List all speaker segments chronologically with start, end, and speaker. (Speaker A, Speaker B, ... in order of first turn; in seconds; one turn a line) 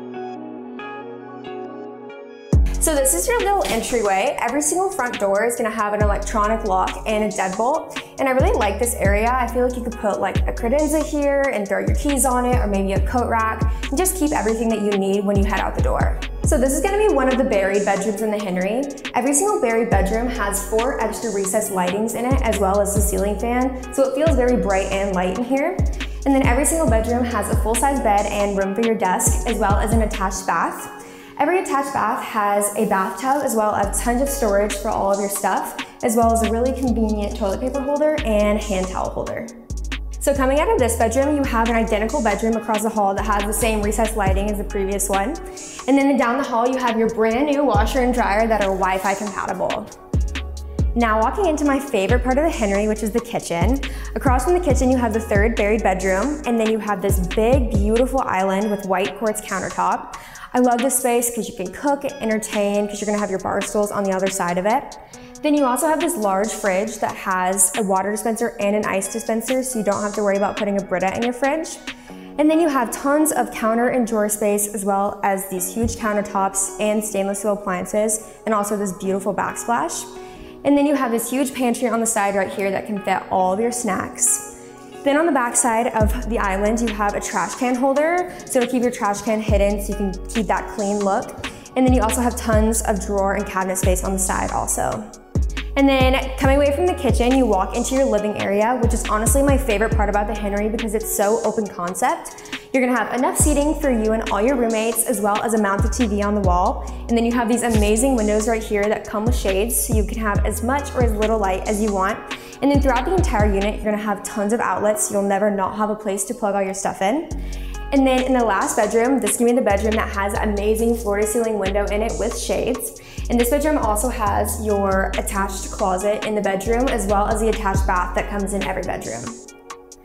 Speaker A: 2.8-39.5
Speaker A: 40.2-49.9
Speaker A: 50.9-71.8
Speaker A: 72.4-80.1
Speaker A: 80.6-95.1
Speaker A: 95.7-117.3
Speaker A: 117.9-129.4